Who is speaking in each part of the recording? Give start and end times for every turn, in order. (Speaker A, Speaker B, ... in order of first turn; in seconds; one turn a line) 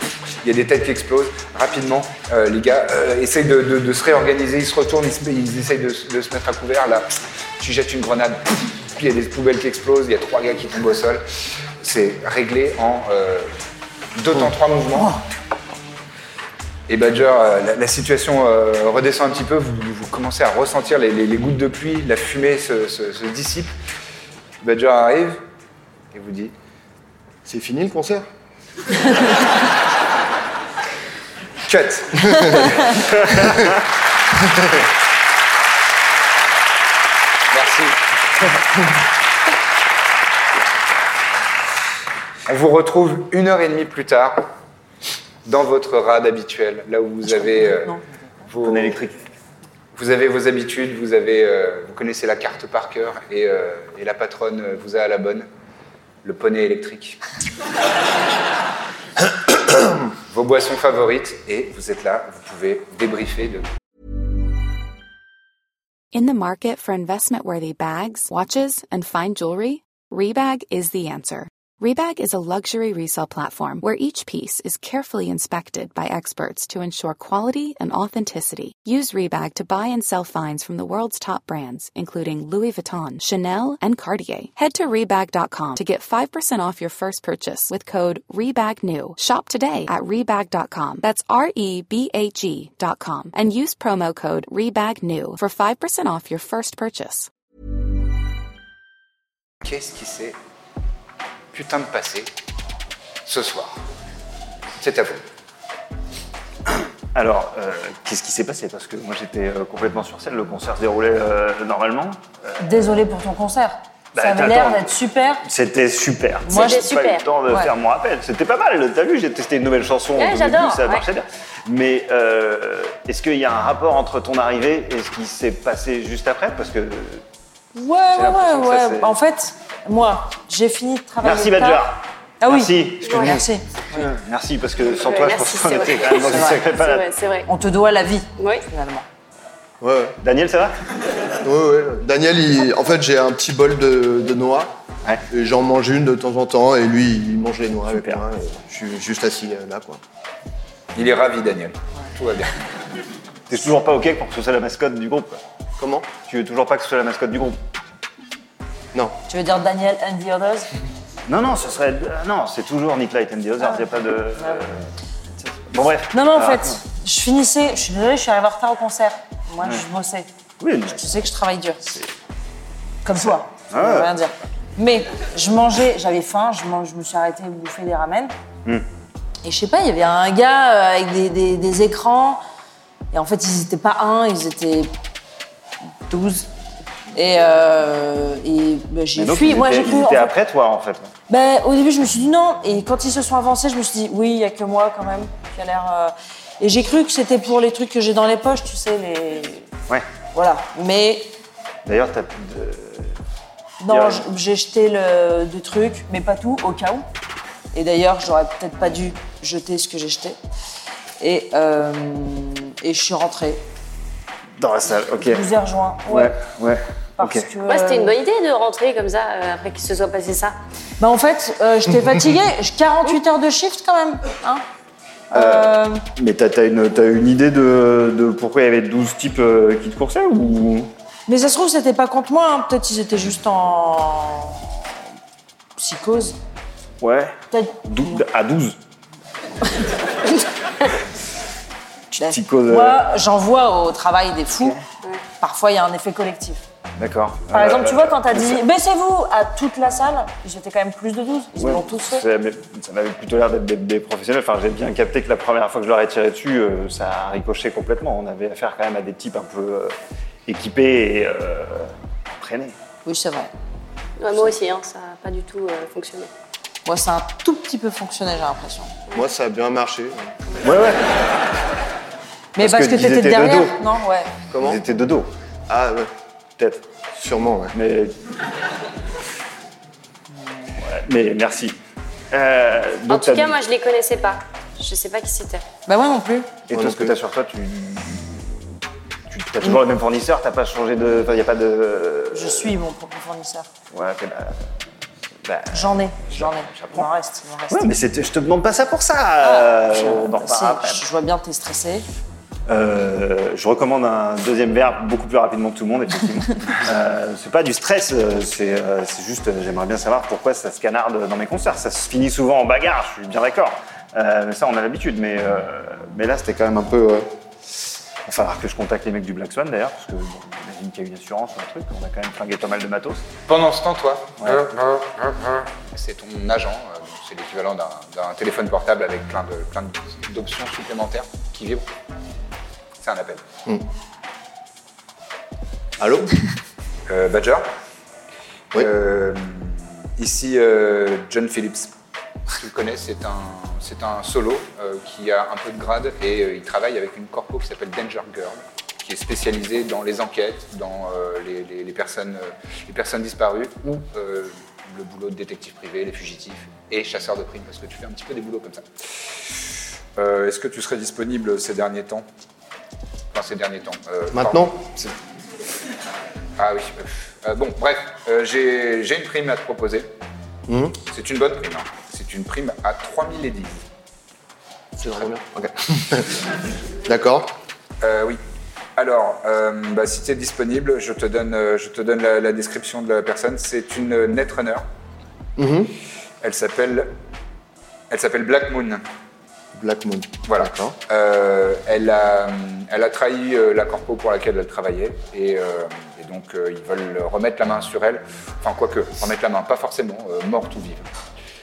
Speaker A: 0.4-11.2
Speaker A: 11.8-13.5
Speaker A: 14.1-15.2
Speaker A: 16.9-23.7
Speaker A: 24.6-25.4
Speaker A: 26.1-26.5
Speaker B: 27.4-28.2
Speaker A: 31.6-33.4
Speaker B: 32.3-32.7
Speaker A: 37.5-38.0
Speaker A: 42.5-44.5
Speaker A: 45.4-47.9
Speaker C: 47.3-48.2
Speaker A: 48.5-49.0
Speaker D: 48.6-49.2
Speaker A: 49.9-55.5
Speaker A: 56.2-57.2
Speaker A: 60.3-63.6
Speaker E: 66.1-97.3
Speaker A: 99.6-100.4
Speaker A: 101.5-102.3
Speaker A: 103.2-103.8
Speaker A: 104.8-105.2
Speaker D: 106.7-112.9
Speaker C: 112.6-115.4
Speaker D: 114.1-114.9
Speaker D: 115.4-127.2
Speaker C: 116.5-116.8
Speaker F: 116.5-117.2
Speaker F: 120.2-121.0
Speaker C: 127.7-131.8
Speaker D: 128.1-129.2
Speaker D: 131.2-137.1
Speaker C: 132.4-134.0
Speaker F: 133.0-133.4
Speaker F: 135.0-137.5
Speaker C: 136.3-136.6
Speaker C: 137.5-139.1
Speaker F: 138.4-138.6
Speaker B: 139.8-140.2
Speaker D: 140.2-140.7
Speaker B: 141.4-144.8
Speaker B: 145.3-150.0
Speaker D: 147.9-148.2
Speaker A: 150.9-152.6
Speaker D: 153.5-155.4
Speaker B: 155.8-156.1
Speaker D: 156.2-157.6
Speaker C: 159.3-160.7
Speaker D: 161.2-164.9
Speaker D: 165.4-166.8
Speaker C: 166.1-170.3
Speaker D: 170.6-171.2
Speaker C: 170.9-171.9
Speaker C: 173.0-178.3
Speaker D: 173.1-174.1
Speaker C: 179.4-182.4
Speaker C: 183.1-184.9
Speaker C: 186.1-186.5
Speaker C: 187.1-190.3
Speaker D: 189.1-191.1
Speaker C: 191.3-199.7
Speaker C: 200.3-201.3
Speaker D: 201.8-203.2
Speaker C: 203.8-207.1
Speaker D: 203.9-204.2
Speaker C: 207.7-210.4
Speaker C: 211.2-213.6
Speaker D: 214.6-215.5
Speaker C: 214.9-216.4
Speaker D: 216.1-217.5
Speaker C: 217.2-218.2
Speaker F: 217.6-220.6
Speaker C: 221.0-224.6
Speaker C: 225.3-226.0
Speaker D: 225.3-230.9
Speaker C: 231.3-234.9
Speaker C: 235.8-236.4
Speaker D: 237.0-238.8
Speaker C: 237.5-238.2
Speaker C: 242.1-244.8
Speaker D: 242.2-243.1
Speaker C: 245.4-246.6
Speaker D: 247.0-248.6
Speaker C: 247.5-252.2
Speaker D: 251.5-259.9
Speaker D: 260.5-262.8
Speaker C: 263.0-263.5
Speaker F: 264.2-266.3
Speaker C: 266.8-268.9
Speaker B: 269.1-270.3
Speaker D: 270.6-271.1
Speaker C: 272.5-274.3
Speaker D: 272.6-273.8
Speaker B: 274.5-274.8
Speaker D: 274.5-275.3
Speaker B: 275.7-276.1
Speaker D: 276.6-276.8
Speaker B: 277.1-277.7
Speaker D: 277.7-278.1
Speaker D: 280.8-281.8
Speaker D: 282.3-283.6
Speaker F: 283.1-285.6
Speaker C: 285.9-286.5
Speaker D: 286.7-288.6
Speaker B: 286.7-287.1
Speaker D: 289.3-292.7
Speaker C: 292.3-293.7
Speaker D: 293.9-294.7
Speaker D: 295.4-297.1
Speaker C: 295.7-297.9
Speaker D: 297.7-301.0
Speaker C: 299.4-302.1
Speaker D: 302.7-317.3
Speaker D: 318.2-323.3
Speaker A: 323.5-331.9
Speaker D: 324.4-324.6
Speaker A: 333.0-333.4
Speaker B: 336.0-336.3
Speaker A: 337.1-337.7
Speaker A: 338.7-341.9
Speaker A: 342.5-358.9
Speaker A: 360.2-362.2
Speaker A: 363.3-365.1
Speaker B: 364.3-364.7
Speaker A: 366.6-370.1
Speaker B: 370.7-371.0
Speaker A: 371.1-373.8
Speaker B: 374.9-376.4
Speaker B: 377.0-377.5
Speaker A: 378.0-378.4
Speaker A: 379.0-384.8
Speaker B: 385.6-385.9
Speaker A: 386.4-387.1
Speaker A: 388.1-389.0
Speaker B: 389.7-390.9
Speaker A: 390.5-401.1